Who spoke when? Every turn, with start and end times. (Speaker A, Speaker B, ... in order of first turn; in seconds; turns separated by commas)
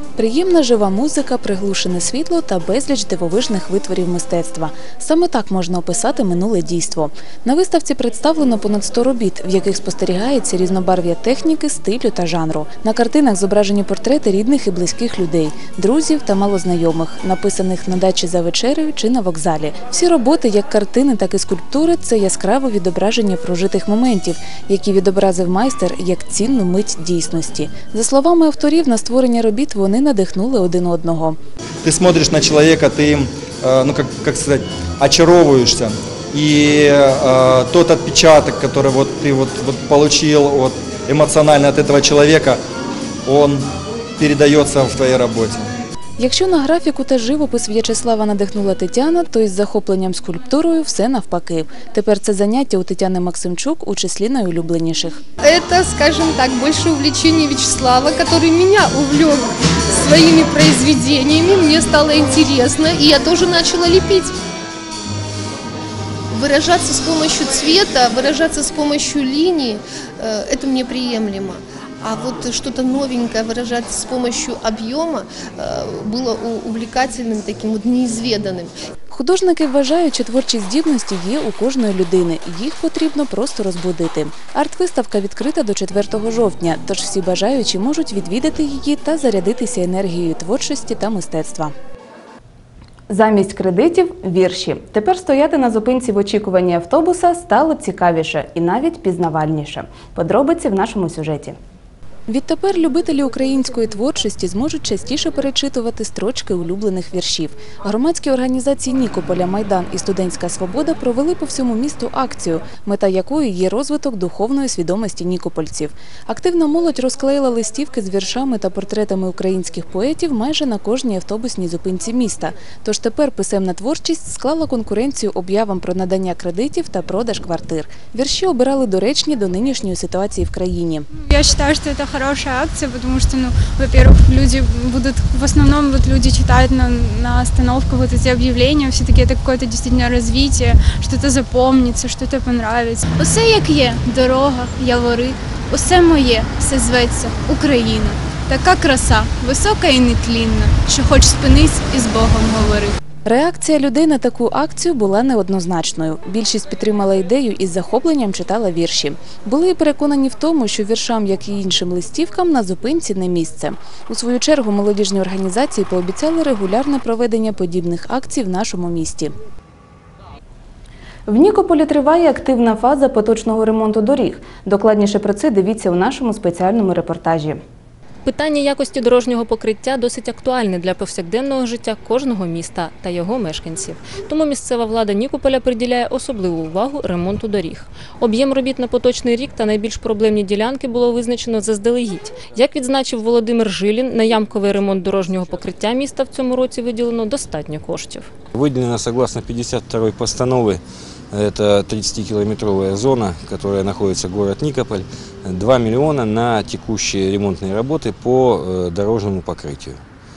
Speaker A: 0.2-31.4, Speaker B: 31.8-42.6, Speaker B: 43.3-43.6, Speaker B: 44.2-45.7, Speaker A: 46.2-55.2, Speaker C: 55.5-64.3, Speaker C: 66.3-78.7, Speaker A: 79.1-91.7, Speaker A: 93.1-101.6, Speaker A: 102.3-131.1, Speaker D: 131.3-152.9, Speaker A: 153.3-169.3, Speaker A: 171.3-177.6, Speaker E: 178.2-198.3, Speaker F: 198.5-200.8, Speaker F: 201.3-210.0